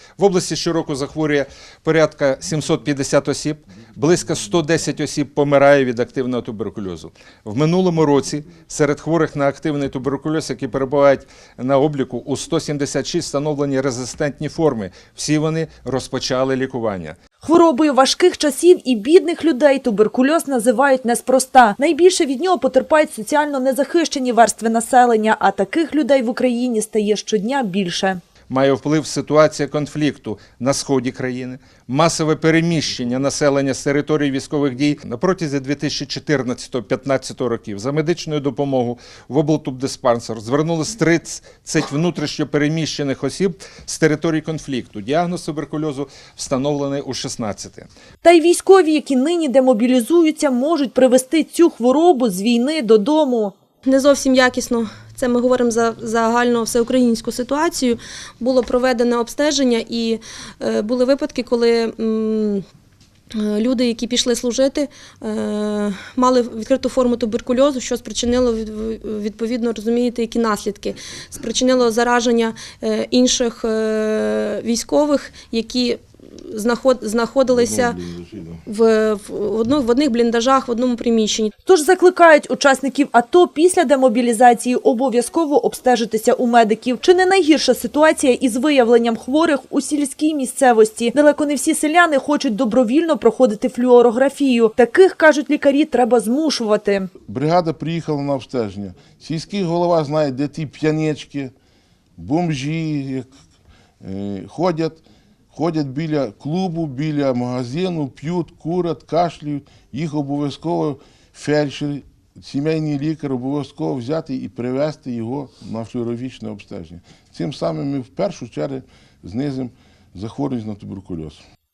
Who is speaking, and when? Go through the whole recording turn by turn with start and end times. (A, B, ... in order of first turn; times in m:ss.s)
0:00.2-0:17.2 A
0:17.4-0:28.2 B
0:28.5-0:47.9 A
0:48.2-0:53.5 B
0:53.8-1:02.6 C
1:03.3-1:18.0 C
1:17.5-1:18.6 D
1:18.6-1:21.5 C
1:21.6-1:37.1 B
1:37.2-1:41.5 D
1:42.2-1:43.3 D
1:44.0-2:01.4 D